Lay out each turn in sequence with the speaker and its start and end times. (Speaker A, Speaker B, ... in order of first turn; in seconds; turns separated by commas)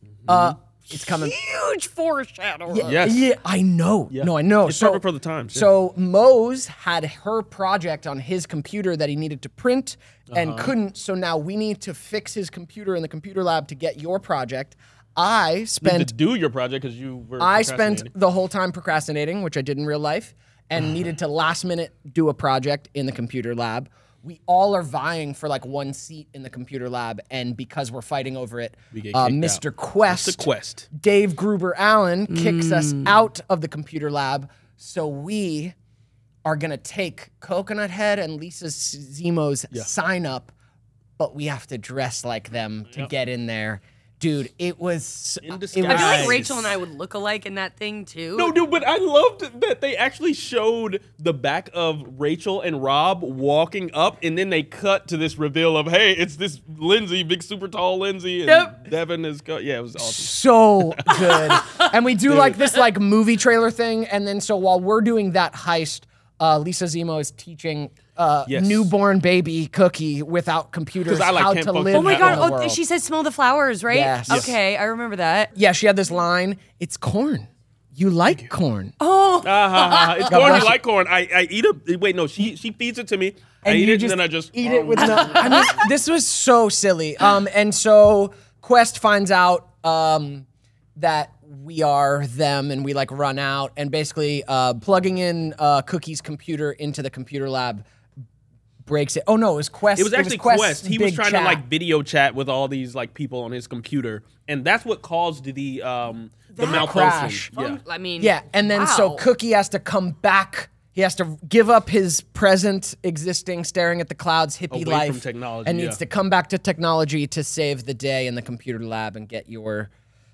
Speaker A: 0.2-0.5, Speaker B: 0.3-1.3, Speaker C: 0.9-3.1, Speaker B: 2.7-16.1, Speaker A: 2.8-3.2, Speaker A: 4.1-5.7, Speaker A: 10.3-10.7, Speaker A: 15.8-18.1, Speaker B: 17.4-35.7, Speaker A: 28.9-30.9, Speaker C: 32.3-33.1, Speaker B: 36.4-40.5, Speaker B: 41.2-46.6, Speaker A: 45.4-46.6, Speaker C: 45.8-48.5, Speaker A: 48.4-61.4, Speaker C: 58.5-58.8, Speaker B: 60.0-72.8, Speaker A: 62.3-62.7, Speaker A: 68.5-68.9, Speaker A: 71.0-72.5, Speaker C: 71.9-75.5, Speaker B: 73.9-74.5, Speaker A: 74.3-74.5, Speaker B: 75.5-78.9, Speaker C: 79.0-80.7, Speaker A: 79.4-85.9, Speaker B: 80.3-80.8, Speaker B: 83.6-97.8, Speaker C: 84.9-85.8, Speaker B: 98.8-101.6, Speaker A: 100.0-107.8, Speaker C: 106.5-109.2, Speaker B: 106.6-107.5, Speaker B: 108.2-119.9, Speaker A: 114.7-116.0